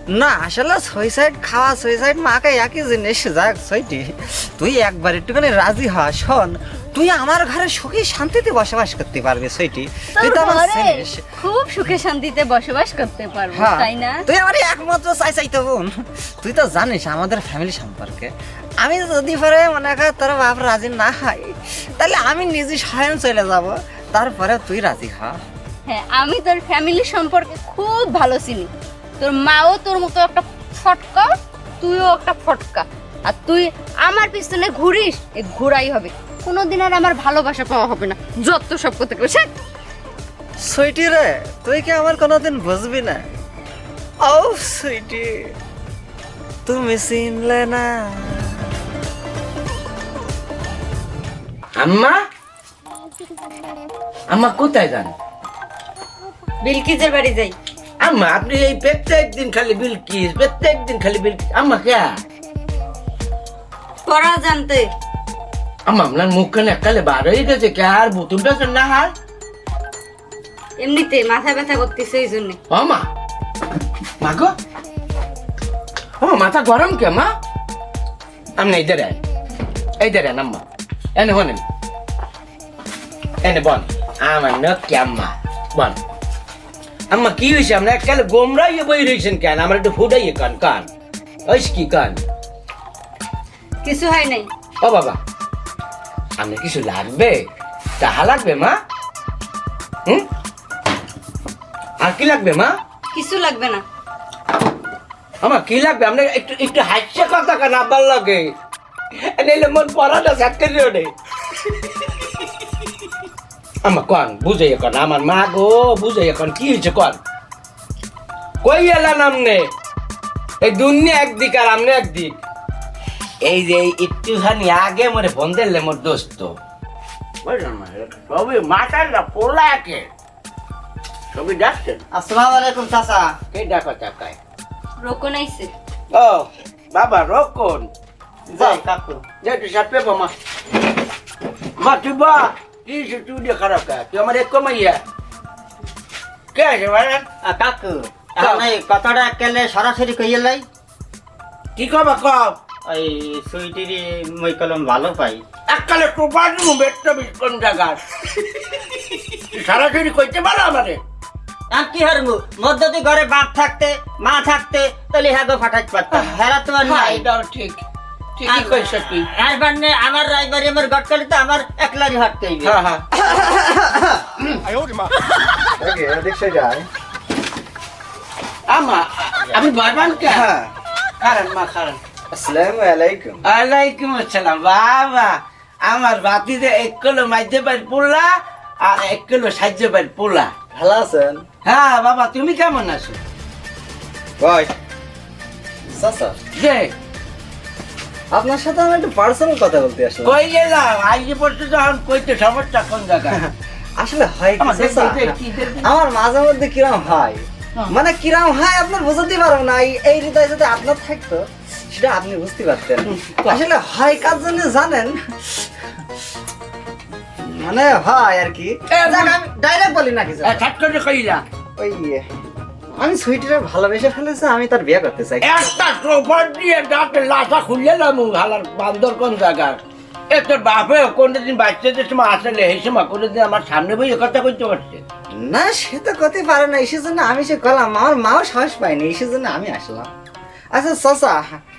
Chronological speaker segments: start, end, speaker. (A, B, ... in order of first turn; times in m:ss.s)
0:00.1-0:11.2 A
0:10.2-0:14.2 B
0:13.5-0:25.4 A
0:25.9-0:39.5 B
0:40.7-0:43.2 A
0:44.2-0:45.5 A
0:46.7-0:48.6 A
0:51.8-0:52.2 C
0:54.3-0:55.1 C
0:56.6-0:57.6 B
0:58.0-1:02.2 C
1:04.1-1:04.9 B
1:05.9-1:09.1 C
1:10.8-1:12.6 B
1:12.7-1:13.1 C
1:14.2-1:14.5 C
1:16.2-1:17.3 C
1:18.6-1:19.2 C
1:20.0-1:20.6 C
1:21.2-1:21.6 C
1:23.4-1:26.0 C
1:27.1-1:30.9 C
1:31.5-1:32.2 C
1:33.8-1:34.5 B
1:34.8-1:35.2 C
1:36.4-1:37.4 C
1:38.0-1:38.8 C
1:42.0-1:42.8 C
1:43.1-1:43.8 B
1:45.4-1:48.5 C
1:49.2-1:51.1 C
1:53.8-1:57.2 C
1:58.6-1:59.7 C
2:00.6-2:02.4 C
2:03.4-2:06.6 C
2:07.4-2:10.1 C
2:11.3-2:12.0 C
2:12.1-2:13.4 D
2:13.5-2:14.4 C
2:15.0-2:15.7 B
2:16.1-2:17.9 C
2:18.5-2:19.2 D
2:19.4-2:20.3 C
2:21.8-2:25.0 C
2:26.6-2:27.3 C
2:27.4-2:30.6 D
2:28.4-2:28.6 C
2:31.8-2:32.6 C
2:32.9-2:35.4 D
2:35.7-2:41.0 C
2:41.7-2:47.3 D
2:46.1-2:47.8 C
2:48.4-2:49.3 C
2:48.5-2:52.8 D
2:52.6-2:53.0 C
2:53.1-2:54.6 A
2:55.8-2:56.9 A
2:58.7-3:00.5 C
3:00.3-3:00.7 A
3:01.2-3:02.0 C
3:02.3-3:03.4 A
3:03.4-3:10.5 C
3:10.7-3:11.4 A
3:11.6-3:13.2 C
3:14.4-3:14.7 A
3:15.9-3:16.4 A
3:16.6-3:16.9 C
3:18.3-3:20.4 A
3:20.2-3:23.4 C
3:23.3-3:35.7 A
3:24.6-3:25.9 C
3:33.0-3:33.6 C
3:37.4-3:40.6 A
3:38.9-3:39.4 C
3:40.4-3:41.4 C
3:41.8-3:42.2 A
3:43.0-3:45.5 A
3:45.4-3:55.0 C
3:55.4-4:00.1 A
4:00.7-4:01.6 A